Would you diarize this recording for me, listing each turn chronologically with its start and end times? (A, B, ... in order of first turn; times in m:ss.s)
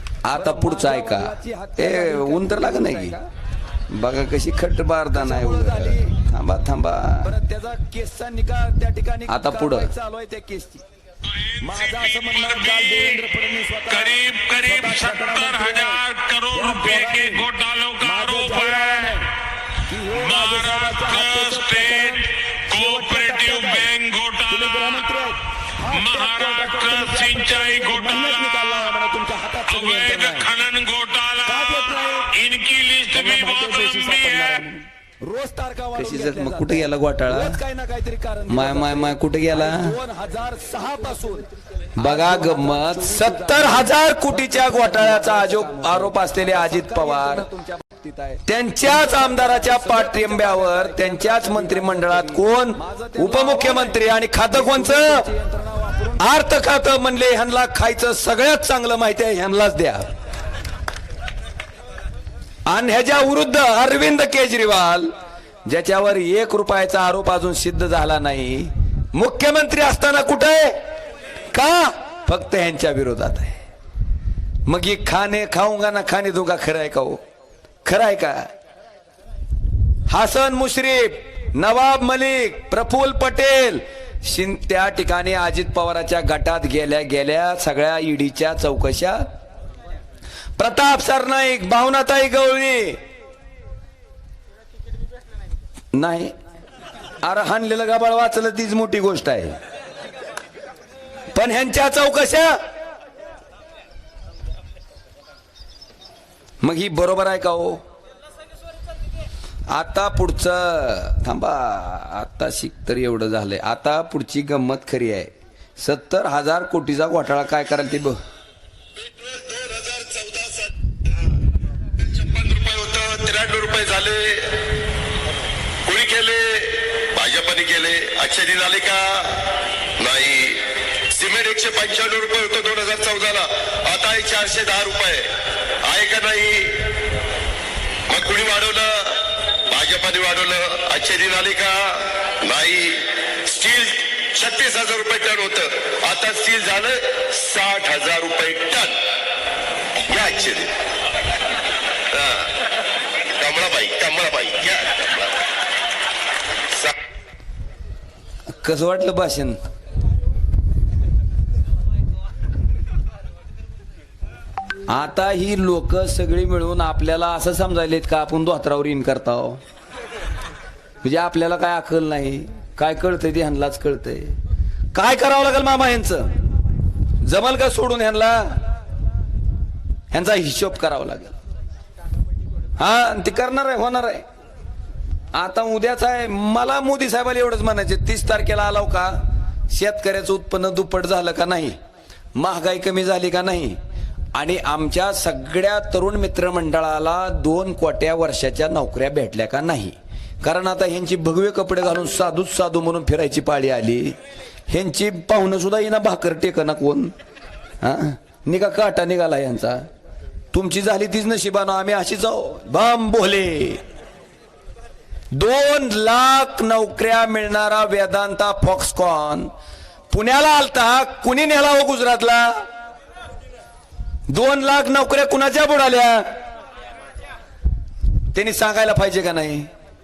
0:00.2-0:03.2 A
0:00.3-0:03.2 B
0:03.9-0:07.3 A
0:05.1-0:06.3 B
0:07.2-0:10.8 B
0:09.3-0:09.9 A
0:11.4-0:13.3 C
0:11.6-0:14.1 B
0:12.6-0:12.9 A
0:13.8-0:19.2 C
0:14.6-0:16.0 B
0:14.9-0:15.9 A
0:16.5-0:17.4 B
0:16.9-0:17.2 A
0:18.0-0:19.3 B
0:19.8-0:23.9 B
0:20.1-0:25.2 C
0:20.4-0:21.3 A
0:22.8-0:23.0 A
0:24.5-0:30.4 B
0:25.9-0:34.7 C
0:26.5-0:26.8 A
0:28.1-0:28.7 A
0:31.4-0:32.3 B
0:33.1-0:34.7 B
0:33.2-0:34.6 A
0:35.2-0:56.8 B
0:35.9-0:37.6 A
0:38.5-0:40.0 A
0:42.0-0:47.5 A
0:48.4-0:55.2 A
0:56.2-1:00.1 A
1:02.7-1:05.1 A
1:05.6-1:10.8 A
1:11.5-1:13.6 A
1:14.6-1:17.2 A
1:17.8-1:18.5 A
1:20.1-1:29.2 A
1:30.6-1:33.0 A
1:35.9-1:36.3 A
1:37.2-1:39.6 A
1:41.3-1:42.6 A
1:46.6-1:47.8 A
1:49.7-1:58.2 A
1:59.0-2:00.7 D
2:02.0-2:04.7 D
2:05.8-2:16.9 D
2:18.1-2:29.0 D
2:30.0-2:30.8 D
2:32.1-2:32.5 D
2:33.3-2:35.3 D
2:38.6-2:39.6 A
2:44.9-2:49.6 A
2:51.0-2:54.4 A
2:54.9-2:56.3 A
2:57.2-2:58.6 A
3:00.1-3:01.4 A
3:02.8-3:04.2 A
3:05.3-3:09.2 A
3:09.7-3:11.8 A
3:12.3-3:13.8 A
3:14.3-3:24.2 A
3:24.7-3:27.1 A
3:27.8-3:29.9 A
3:30.5-3:33.8 A
3:35.3-3:39.5 A
3:40.1-3:42.6 A
3:44.3-3:46.3 A
3:48.3-3:49.7 A